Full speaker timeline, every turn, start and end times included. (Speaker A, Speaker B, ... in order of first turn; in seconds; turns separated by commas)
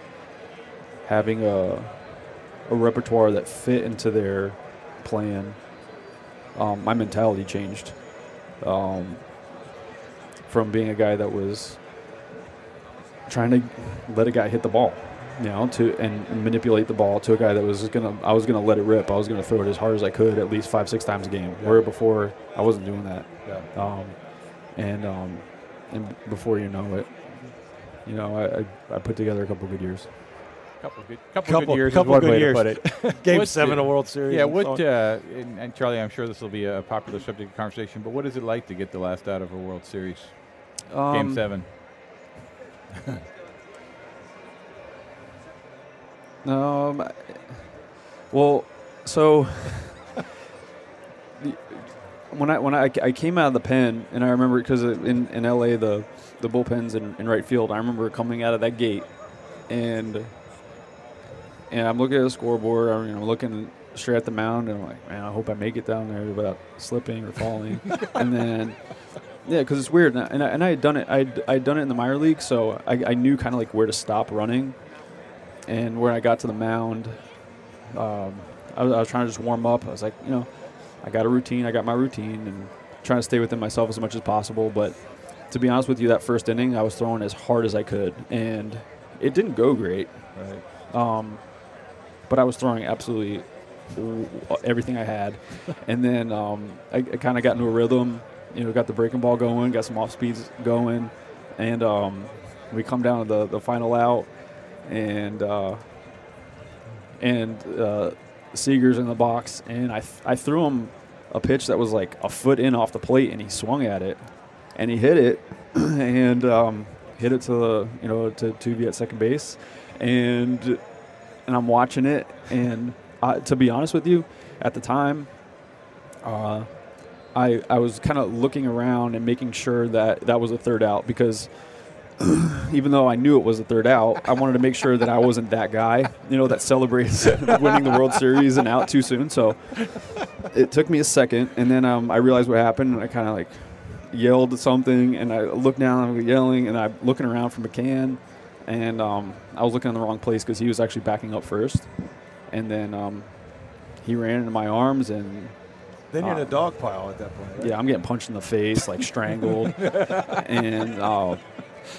Speaker A: 1.0-6.0, Speaker A: 6.5-9.3, Speaker A: 10.4-11.8, Speaker A: 13.3-30.1, Speaker B: 21.6-21.8, Speaker C: 30.8-41.7, Speaker B: 31.4-34.8, Speaker A: 40.9-41.5, Speaker A: 46.4-47.6, Speaker A: 48.3-50.1, Speaker A: 51.4-60.3, Speaker A: 61.7-106.2, Speaker B: 90.3-90.6, Speaker A: 107.2-156.9, Speaker B: 156.1-157.8, Speaker A: 157.6-161.8